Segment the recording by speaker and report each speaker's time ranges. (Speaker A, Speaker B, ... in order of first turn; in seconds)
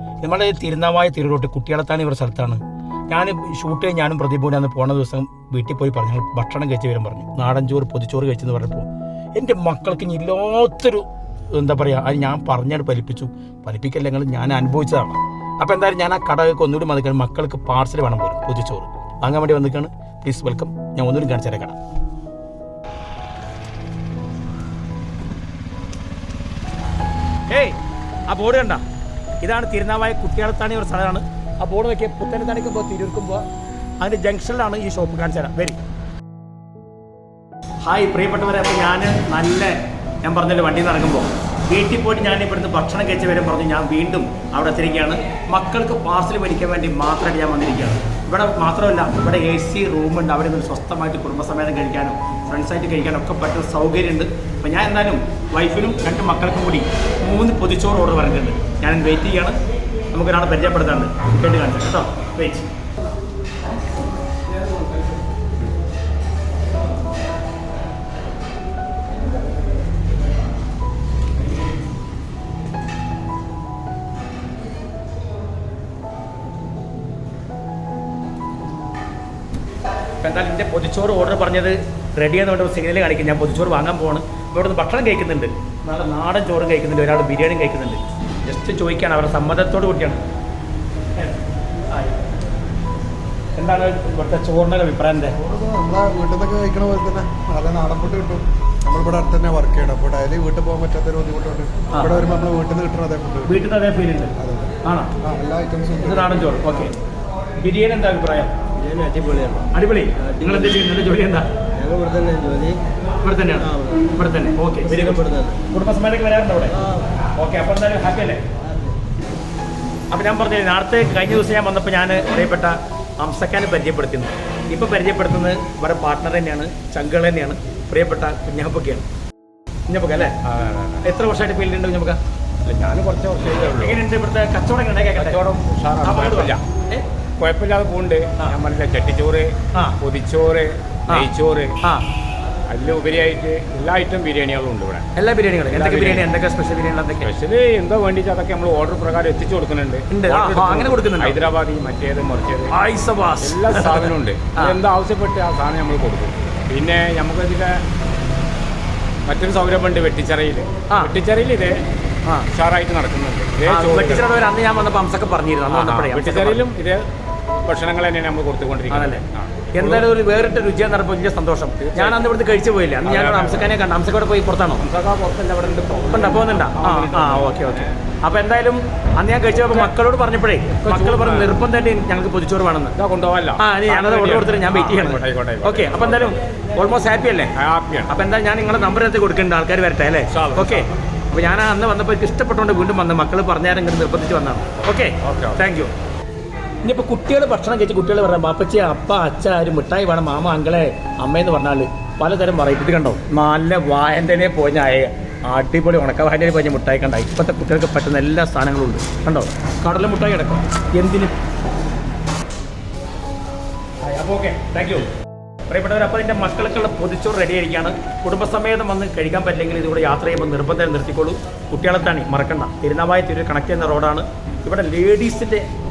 Speaker A: 0.2-21.8, 27.5-27.8, 28.3-28.8, 29.4-33.4, 34.0-35.8, 37.8-59.5, 60.1-62.7, 80.2-90.2, 91.9-92.2, 93.5-95.3, 101.9-102.2, 103.5-104.3, 104.8-105.1, 106.0-107.0, 107.6-108.5, 109.7-111.5, 113.2-116.8, 117.3-118.4, 120.1-129.0, 129.9-130.4, 131.0-132.2, 133.7-135.4, 136.0-137.0, 145.1-147.3, 150.1-151.4, 152.7-154.8, 160.9-161.1, 163.7-166.6, 168.9-174.8, 176.1-182.9, 183.6-187.5, 188.1-195.9, 196.8-211.3, 214.0-215.1, 215.7-225.6
Speaker B: 95.4-103.6, 104.4-106.7
Speaker C: 108.8-109.7, 111.7-112.8, 113.7-114.0, 114.9-115.5
Speaker D: 130.4-131.0, 132.6-134.0, 135.1-136.6, 137.4-141.7, 142.7-145.1, 145.7-146.3, 147.2-152.7, 153.4-157.8, 159.2-161.8, 162.5-164.3, 165.7-167.1, 167.7-170.1, 171.8-172.2, 173.0-173.8, 174.8-177.9, 180.8-181.5, 182.9-186.3, 187.5-188.1, 190.3-191.0, 195.2-195.6